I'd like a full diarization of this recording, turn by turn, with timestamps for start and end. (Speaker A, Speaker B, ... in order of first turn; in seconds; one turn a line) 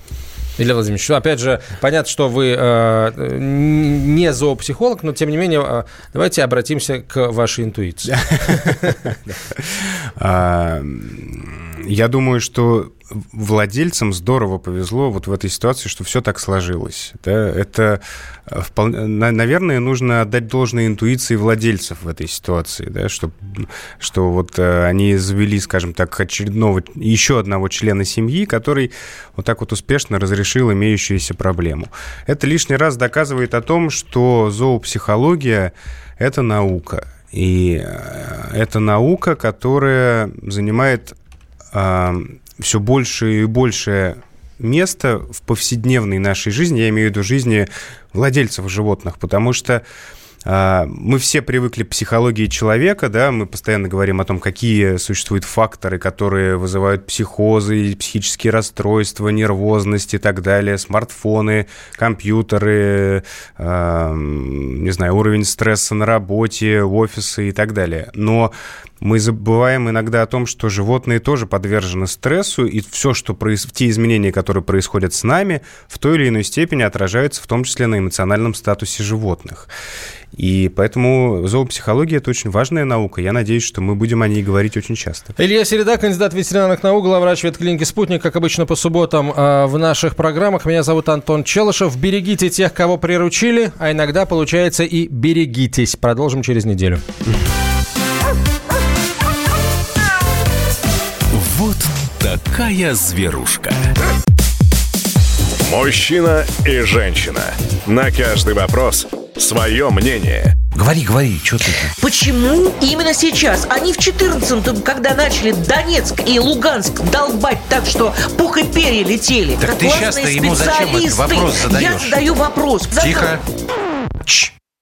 Speaker A: 0.6-9.0
Speaker B: 8.3-41.1
Speaker B: 41.7-49.8
Speaker B: 50.4-79.7
Speaker B: 80.3-85.3
Speaker A: 85.4-97.0
Speaker C: 101.3-103.9
Speaker D: 105.6-110.5
Speaker E: 110.7-111.9
Speaker F: 112.0-123.3
Speaker E: 119.6-122.2
Speaker E: 122.9-123.4